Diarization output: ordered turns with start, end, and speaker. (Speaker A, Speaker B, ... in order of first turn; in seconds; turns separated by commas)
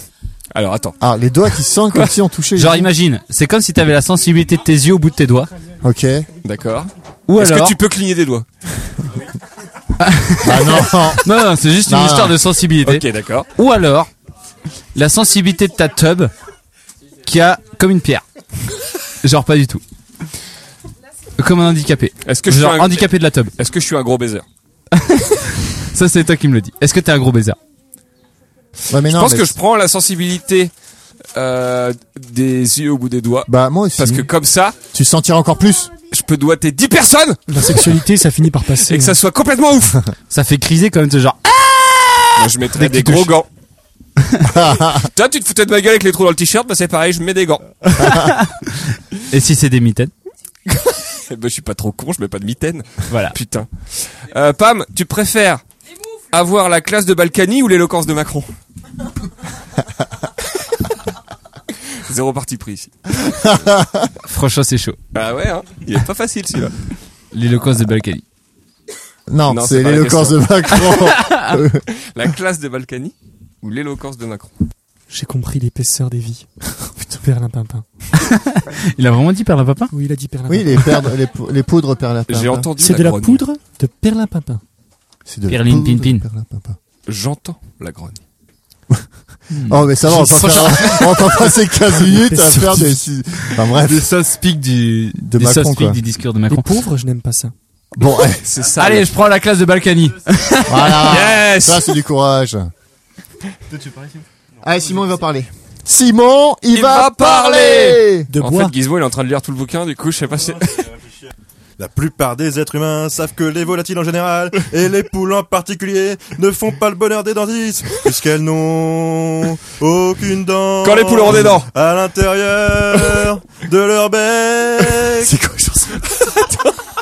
Speaker A: 0.5-0.9, Speaker B: 1.0-2.9, Speaker C: 2.6-5.5, Speaker B: 5.8-6.3, Speaker A: 6.4-8.4, Speaker C: 7.3-7.8, Speaker C: 10.0-14.1, Speaker B: 10.4-11.2, Speaker B: 11.8-12.4, Speaker A: 12.8-13.5, Speaker C: 14.9-16.3, Speaker C: 17.2-18.2, Speaker C: 19.2-19.8, Speaker C: 21.4-23.5, Speaker A: 22.2-24.4, Speaker C: 24.9-27.6, Speaker B: 28.9-29.5, Speaker A: 29.0-30.7, Speaker A: 31.3-34.8, Speaker B: 33.5-34.3, Speaker B: 34.9-35.9, Speaker A: 36.1-37.4, Speaker D: 37.5-39.2, Speaker A: 38.9-40.0, Speaker C: 40.3-43.3, Speaker A: 42.4-43.5, Speaker B: 44.4-45.1, Speaker A: 44.9-47.6, Speaker C: 48.0-50.1, Speaker B: 48.0-48.3, Speaker A: 51.1-55.6, Speaker C: 53.1-53.3, Speaker A: 56.3-58.5, Speaker A: 61.9-62.9, Speaker B: 63.2-64.1, Speaker C: 64.2-65.0, Speaker A: 65.1-66.7, Speaker C: 67.3-68.2, Speaker B: 69.3-71.8, Speaker A: 69.5-70.9, Speaker C: 71.0-71.6, Speaker A: 71.9-74.5, Speaker D: 75.1-77.8, Speaker C: 78.2-79.9, Speaker D: 79.9-81.1, Speaker B: 80.5-82.7, Speaker A: 82.3-83.4, Speaker D: 82.8-84.6, Speaker B: 85.2-86.8, Speaker C: 85.5-86.2, Speaker A: 87.0-88.2, Speaker C: 89.5-91.5, Speaker B: 89.7-94.0, Speaker C: 92.0-93.0, Speaker C: 93.5-96.7, Speaker B: 95.2-96.0, Speaker D: 96.5-97.5, Speaker B: 97.9-98.4, Speaker A: 98.4-99.1, Speaker C: 98.8-101.1, Speaker B: 100.7-102.7, Speaker A: 101.0-101.9, Speaker B: 104.6-108.3, Speaker A: 106.7-110.9, Speaker D: 108.3-108.7, Speaker E: 111.8-125.3, Speaker A: 120.8-121.7, Speaker B: 125.2-126.4